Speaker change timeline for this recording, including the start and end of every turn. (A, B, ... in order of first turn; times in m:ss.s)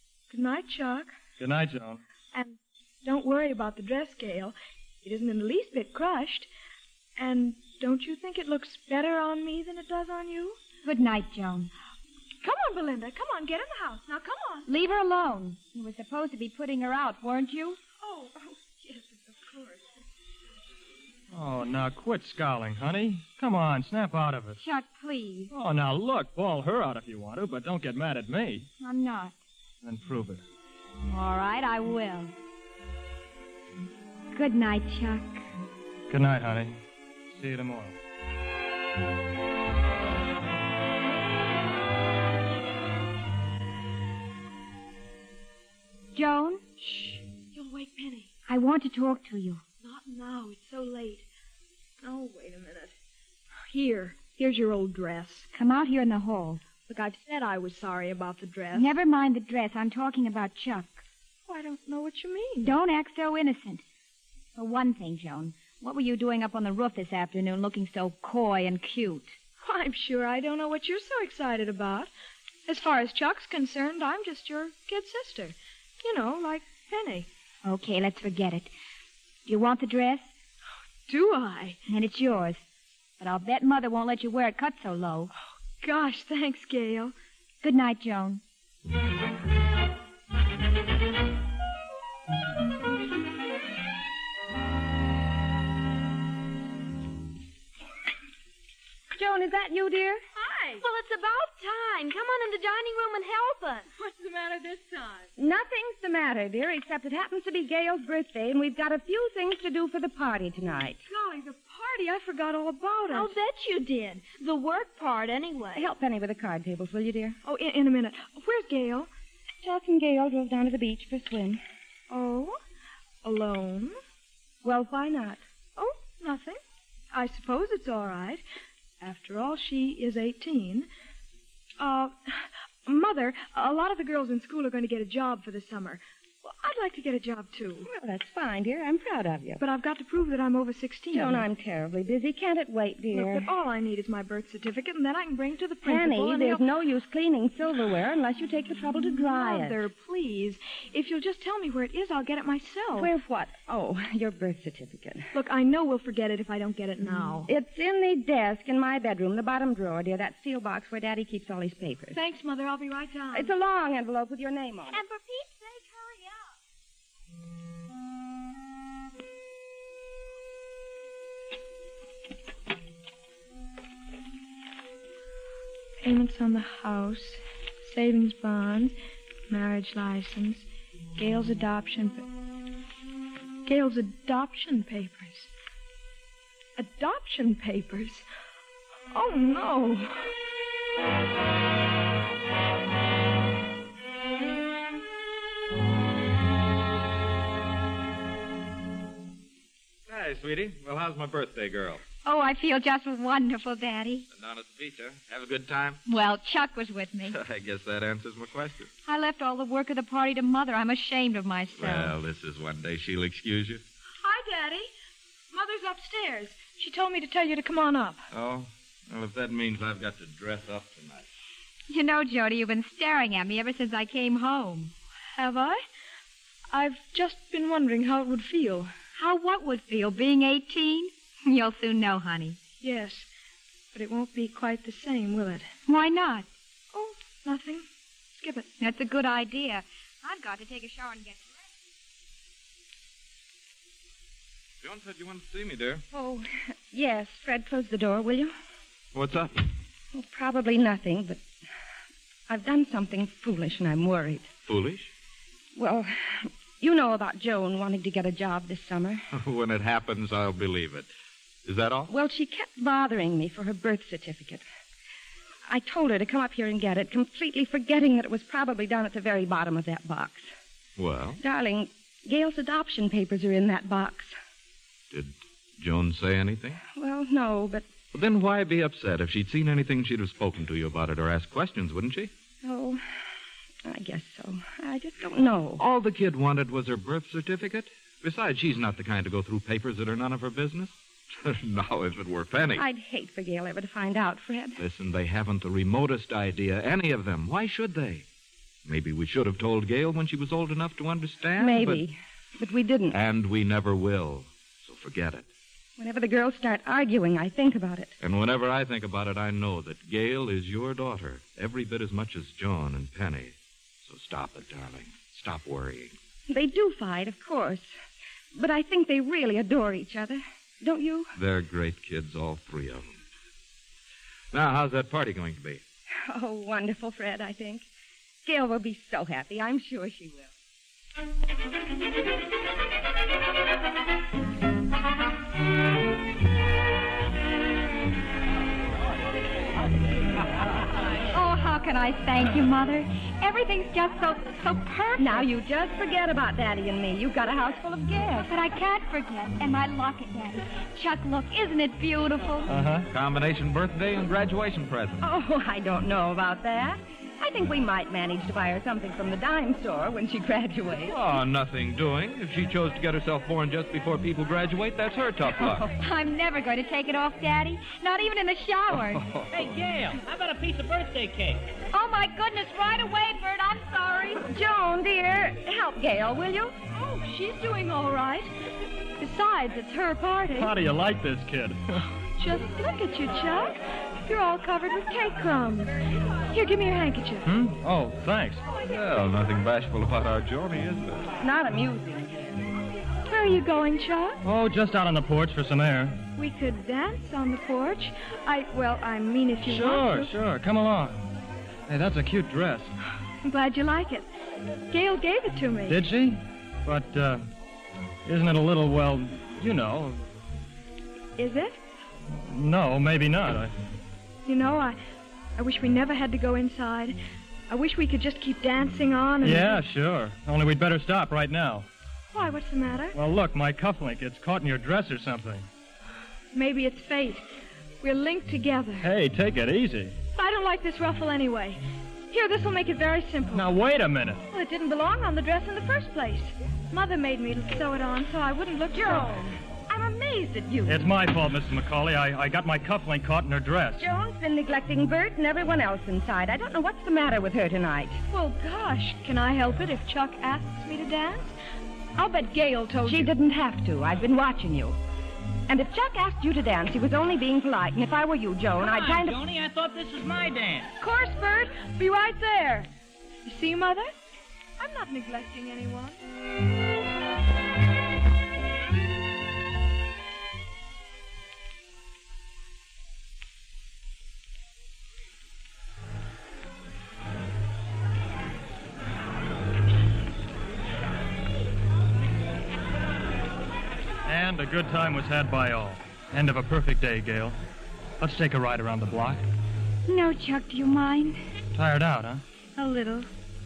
0:00.3-0:01.1 A
0:01.4-0:02.0 B
0:02.3-0:06.5 A
0:07.2-0:10.6 A
0:10.8-0:11.7 C
0:12.4-0:14.7 A
0:14.6-0:17.8 C
0:18.0-0:19.9 A
0:21.3-0:24.6 B
0:24.6-0:25.5 C
0:25.5-0:28.7 B
0:28.8-0:29.4 C
0:29.8-0:30.4 B
0:31.0-0:32.3 C
0:34.3-0:35.4 C
0:36.1-0:36.8 B
0:37.3-0:38.0 B
0:46.1-0:47.2 C
0:47.5-0:48.3 A
0:48.5-0:49.6 C
0:49.8-0:51.3 A
0:52.0-0:52.9 A
0:53.7-0:55.5 A
0:55.5-0:56.6 C
0:56.9-0:58.9 A
0:58.7-1:01.0 C
1:01.5-1:02.7 A
1:02.6-1:03.8 C
1:04.6-1:09.3 C
1:09.6-1:12.1 A
1:12.7-1:17.3 A
1:17.6-1:18.7 C
1:19.5-1:20.3 C
1:21.1-1:21.8 A
1:21.9-1:22.6 C
1:23.2-1:25.3 C
1:25.8-1:27.1 A
1:27.6-1:28.4 C
1:39.1-1:40.2 D
1:40.3-1:40.8 A
1:40.8-1:43.9 E
1:43.9-1:45.3 A
1:45.4-1:51.0 D
1:51.1-1:53.3 A
1:53.1-1:55.9 E
1:55.7-1:57.4 D
1:57.4-1:59.1 A
1:59.6-2:01.6 D
2:02.1-2:02.6 A
2:03.2-2:04.0 A
2:04.6-2:05.4 D
2:05.8-2:08.4 A
2:09.0-2:10.9 A
2:11.8-2:17.9 A
2:17.8-2:19.6 D
2:19.6-2:21.4 A
2:21.1-2:23.4 D
2:23.1-2:26.6 A
2:25.8-2:29.8 D
2:29.2-2:33.1 A
2:32.9-2:35.3 D
2:35.3-2:37.5 A
2:37.5-2:42.2 D
2:42.1-2:43.5 A
2:43.3-2:45.0 D
2:44.9-2:46.5 E
2:56.0-2:58.9 A
2:59.5-3:02.3 A
3:03.6-3:05.5 A
3:06.8-3:08.2 A
3:09.1-3:10.3 A
3:20.1-3:22.0 F
3:22.2-3:24.3 C
3:24.3-3:26.0 F
3:26.0-3:27.4 C
3:27.3-3:28.9 F
3:29.0-3:32.1 C
3:31.7-3:33.8 F
3:34.2-3:34.9 A
3:35.5-3:38.2 A
3:38.3-3:41.3 F
3:41.9-3:44.9 C
3:45.3-3:45.8 A
3:46.7-3:48.9 A
3:49.2-3:52.6 C
3:52.8-3:53.3 A
3:53.9-3:55.7 A
3:55.9-3:56.5 C
3:56.9-3:57.8 A
3:58.4-3:58.7 A
3:58.8-4:01.5 C
4:04.8-4:06.0 F
4:06.1-4:08.5 D
4:09.1-4:09.6 F
4:10.1-4:11.4 D
4:12.5-4:14.5 D
4:14.6-4:15.1 F
4:15.8-4:19.2 D
4:19.3-4:21.1 F
4:21.6-4:22.1 F
4:22.1-4:24.6 D
4:25.7-4:30.5 D
4:31.0-4:31.4 F
4:31.4-4:34.4 D
4:35.1-4:36.8 F
4:36.9-4:37.9 D
4:38.1-4:42.3 F
4:42.6-4:43.0 D
4:43.8-4:45.8 D
4:45.8-4:52.8 F
4:52.8-4:54.8 D
4:54.8-4:58.2 F
4:58.8-5:02.0 F
5:01.6-5:03.2 D
5:03.1-5:05.5 F
5:06.0-5:08.2 D
5:08.2-5:16.1 F
5:16.5-5:17.9 D
5:18.5-5:21.3 D
5:21.4-5:23.2 F
5:24.5-5:25.8 F
5:26.3-5:27.8 D
5:28.4-5:30.5 D
5:41.3-5:45.5 C
5:45.2-5:48.5 D
5:48.5-5:52.7 C
5:52.7-5:53.1 B
5:53.1-5:55.2 F
5:55.2-6:01.2 D
6:01.0-6:05.8 F
6:06.0-6:09.2 C
6:08.9-6:09.6 F
6:09.5-6:11.6 G
6:11.9-6:14.4 C
6:14.5-6:16.7 D
6:16.9-6:18.5 A
6:19.2-6:20.7 A
6:20.5-6:22.0 B
6:22.2-6:26.0 A
6:26.5-6:27.5 A
6:27.4-6:28.7 B
6:28.7-6:31.3 F
6:31.4-6:32.6 D
6:33.2-6:34.4 A
6:34.4-6:36.2 B
6:36.4-6:40.3 A
6:39.6-6:41.3 B
6:41.9-6:42.9 B
6:43.4-6:44.3 A
6:44.9-6:46.0 A
6:45.9-6:47.5 B
6:48.2-6:50.2 B
6:51.4-6:51.8 A
6:52.3-6:53.7 B
6:54.4-6:55.0 A
6:55.6-6:57.2 A
6:57.7-6:59.8 A
6:59.4-7:01.9 B
7:02.3-7:03.2 A
7:03.1-7:05.7 B
7:06.5-7:07.4 A
7:08.0-7:09.1 A
7:09.0-7:10.2 B
7:10.3-7:13.7 A
7:13.5-7:14.4 B
7:14.5-7:19.4 A
7:18.9-7:21.1 D
7:20.8-7:24.1 B
7:24.0-7:28.2 D
7:28.3-7:31.5 A
7:32.2-7:33.3 A
7:33.0-7:35.0 D
7:35.7-7:39.4 D
7:38.8-7:40.9 G
7:41.0-7:42.9 A
7:43.4-7:44.2 A
7:44.8-7:46.2 A
8:04.2-8:07.6 B
8:08.2-8:09.4 B
8:10.1-8:11.4 C
8:11.7-8:12.4 B
8:12.8-8:13.3 C